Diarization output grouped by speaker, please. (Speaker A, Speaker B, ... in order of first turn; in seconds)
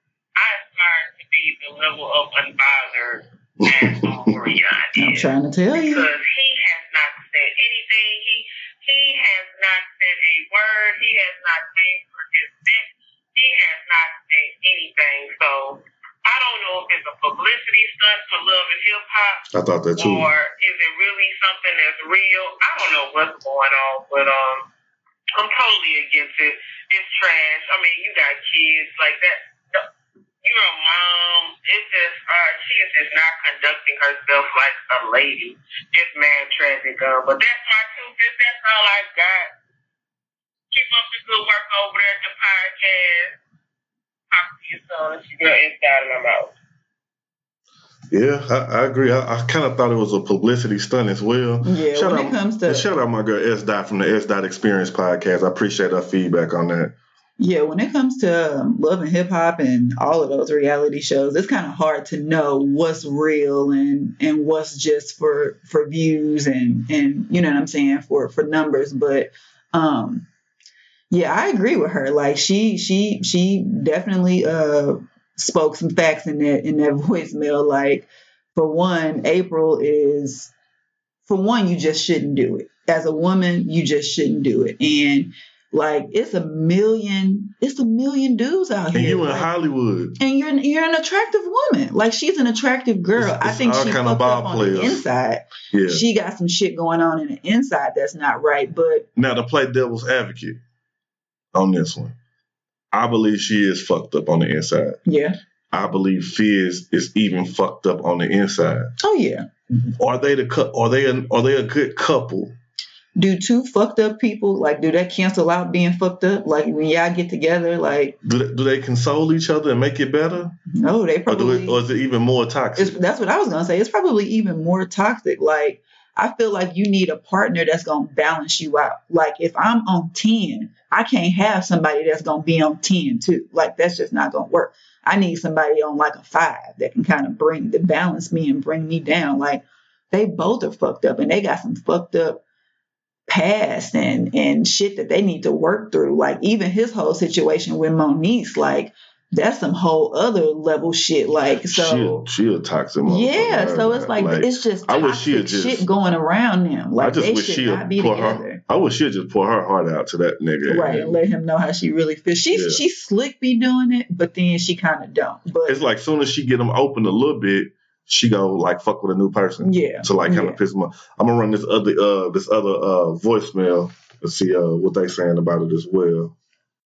Speaker A: 0.3-19.4, 20.0-24.7, 25.3-29.9, 30.4-39.5, 40.7-43.4, 44.3-46.5
Speaker B: 3.6-4.5, 19.5-20.3, 48.1-56.9, 88.9-90.2, 93.2-95.0, 95.7-96.0, 99.2-100.6, 101.5-102.2, 102.9-105.0, 105.7-108.9, 110.0-112.5, 118.2-120.5, 121.3-123.0, 151.7-155.8, 157.0-161.2, 162.5-162.8, 165.7-176.3
Speaker C: 5.0-6.1, 51.6-52.9, 57.4-70.3, 71.1-80.5, 81.3-89.5, 90.2-99.1, 105.0-105.4, 109.0-109.5, 113.2-118.2, 120.7-121.8, 122.8-142.4, 143.3-152.2, 153.1-158.6, 160.7-165.8, 169.6-170.6